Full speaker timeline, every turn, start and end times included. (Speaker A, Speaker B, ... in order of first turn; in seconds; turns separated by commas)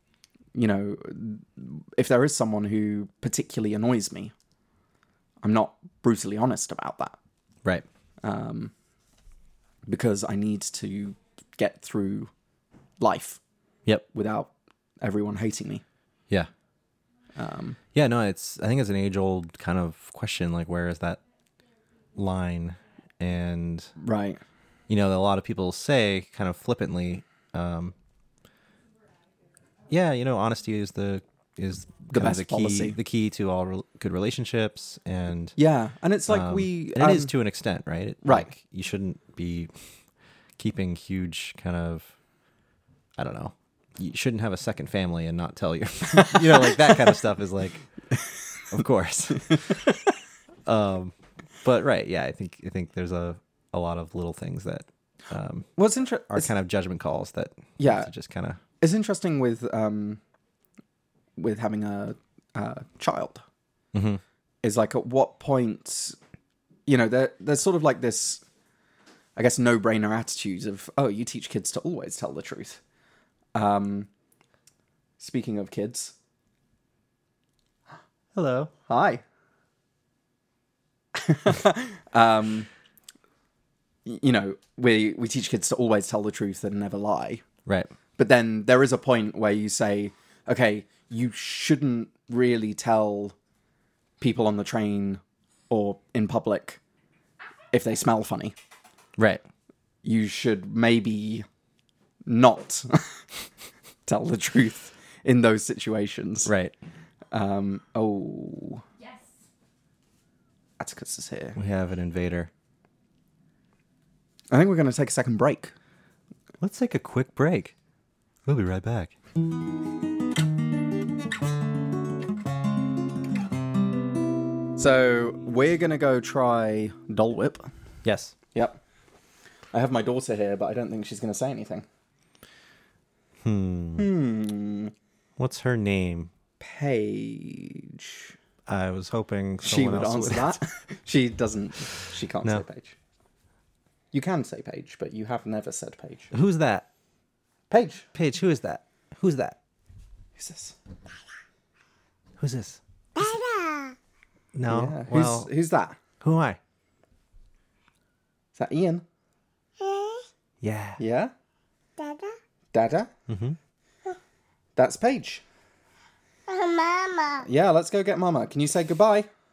Speaker A: 0.5-4.3, Speaker A: 5.4-7.2, Speaker A: 8.2-8.7, Speaker A: 9.9-12.3, Speaker A: 13.0-13.4, Speaker A: 14.1-15.8, Speaker A: 17.4-17.8, Speaker B: 17.9-21.2, Speaker B: 22.1-23.9, Speaker A: 24.0-24.4, Speaker B: 24.9-27.9, Speaker B: 29.9-35.6, Speaker A: 32.1-33.0, Speaker A: 35.6-37.3, Speaker B: 36.3-39.7, Speaker A: 38.2-38.5, Speaker B: 40.6-42.1, Speaker B: 43.2-47.9, Speaker A: 46.2-47.0, Speaker B: 48.7-49.8, Speaker B: 50.6-55.7, Speaker A: 55.8-56.5, Speaker B: 56.3-58.6, Speaker A: 57.8-58.1, Speaker A: 58.8-60.2, Speaker A: 61.4-63.4, Speaker B: 63.9-64.2, Speaker A: 64.6-66.2, Speaker A: 66.8-68.4, Speaker A: 69.3-72.8, Speaker A: 73.5-74.1, Speaker A: 75.2-76.1, Speaker B: 78.3-78.7, Speaker A: 78.9-79.2, Speaker A: 81.1-82.7, Speaker A: 84.0-87.4, Speaker B: 87.7-87.9, Speaker A: 88.2-93.3, Speaker A: 94.2-96.8, Speaker A: 97.7-98.5, Speaker B: 99.2-99.4, Speaker A: 100.0-101.4, Speaker A: 102.2-103.2, Speaker A: 104.0-106.5, Speaker B: 106.5-106.7, Speaker A: 107.3-108.8, Speaker A: 110.8-111.6, Speaker B: 111.5-112.5, Speaker A: 114.5-115.7, Speaker B: 116.6-117.7, Speaker B: 118.5-119.1, Speaker A: 124.8-127.7, Speaker B: 128.0-128.3, Speaker A: 128.5-128.8, Speaker A: 129.7-131.8, Speaker B: 133.4-134.1, Speaker A: 134.0-134.9, Speaker B: 135.4-136.3, Speaker A: 136.6-138.3, Speaker B: 138.7-140.6, Speaker A: 139.6-142.9, Speaker A: 144.1-146.3, Speaker B: 146.3-146.9, Speaker A: 147.7-148.1, Speaker B: 148.1-149.6, Speaker A: 150.4-150.8, Speaker B: 152.4-152.8, Speaker C: 153.2-153.9, Speaker B: 154.5-155.5, Speaker A: 154.7-156.0, Speaker B: 156.2-156.6, Speaker A: 158.6-159.0, Speaker C: 159.8-160.3, Speaker B: 160.6-161.0, Speaker A: 161.0-161.3, Speaker C: 162.0-162.3, Speaker A: 162.7-163.1, Speaker B: 163.3-163.6, Speaker A: 164.8-165.4, Speaker C: 166.5-167.4, Speaker A: 167.4-169.3